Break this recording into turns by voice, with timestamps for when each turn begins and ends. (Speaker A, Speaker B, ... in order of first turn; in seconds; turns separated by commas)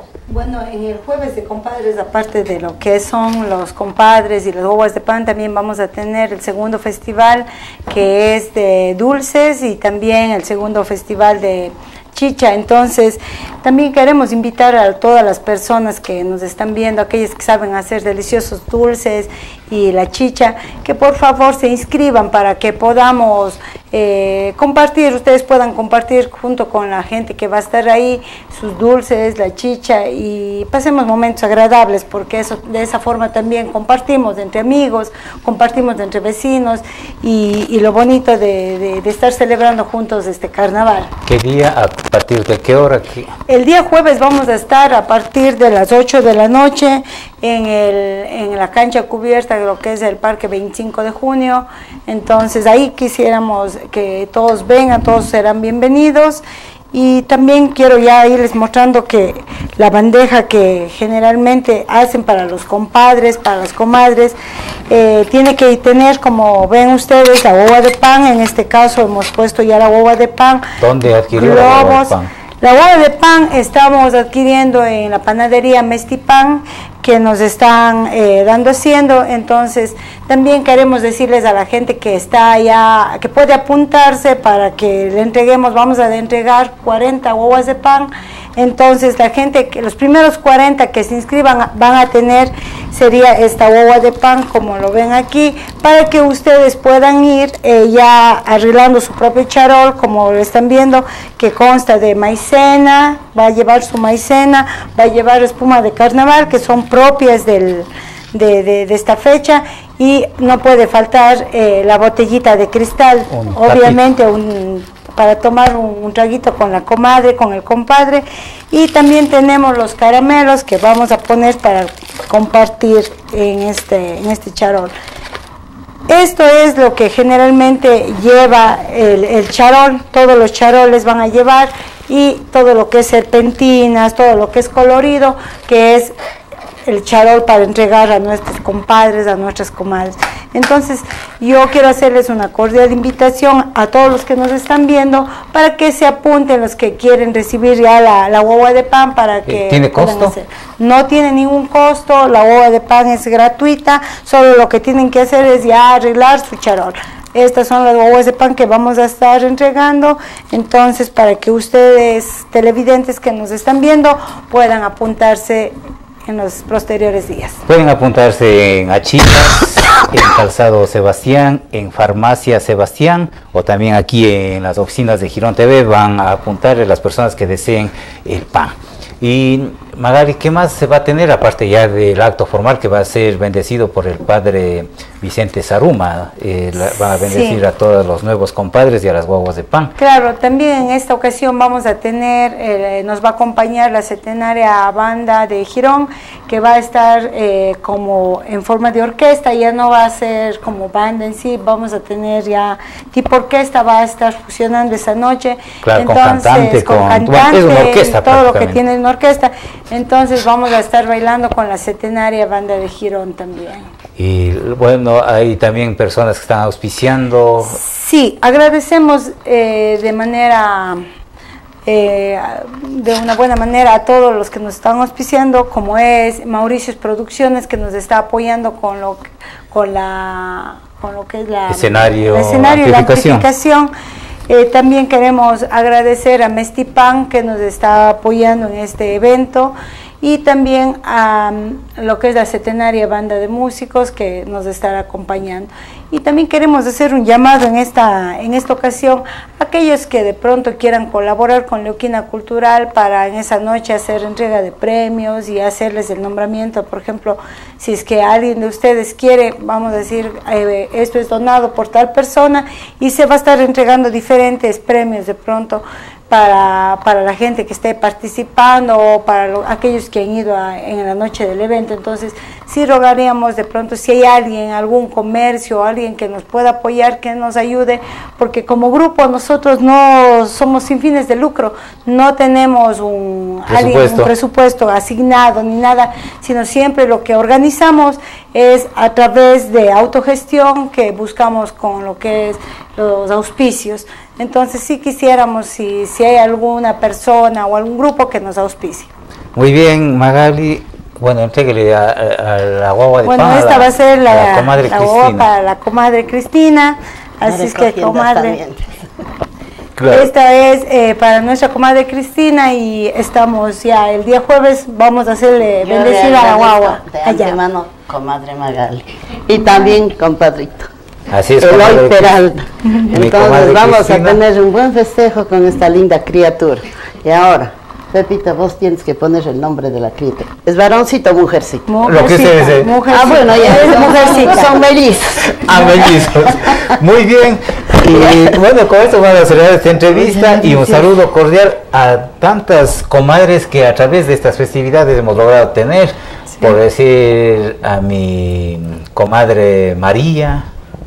Speaker A: 0.3-41.1, Speaker B: 41.2-43.3, Speaker A: 43.5-64.4, Speaker A: 64.9-70.6, Speaker B: 70.8-72.3, Speaker A: 71.3-124.9, Speaker B: 113.3-114.0, Speaker A: 126.1-136.1, Speaker A: 136.9-167.6, Speaker B: 149.5-150.3, Speaker B: 167.7-189.9, Speaker A: 186.8-187.6, Speaker A: 190.0-213.8, Speaker B: 205.8-208.8, Speaker B: 214.2-217.8, Speaker A: 217.7-221.0, Speaker A: 221.8-233.9, Speaker B: 231.7-233.4, Speaker A: 234.5-299.1, Speaker B: 283.7-284.3, Speaker B: 299.5-305.5, Speaker A: 303.2-308.6, Speaker C: 307.4-309.0, Speaker B: 310.0-310.3, Speaker A: 310.1-317.6, Speaker C: 315.8-320.9, Speaker B: 321.3-322.3, Speaker C: 321.6-331.9, Speaker B: 323.1-324.4, Speaker A: 331.9-334.8, Speaker B: 332.1-332.9, Speaker C: 333.1-336.2, Speaker B: 335.6-350.7, Speaker C: 338.1-338.5, Speaker C: 340.1-341.1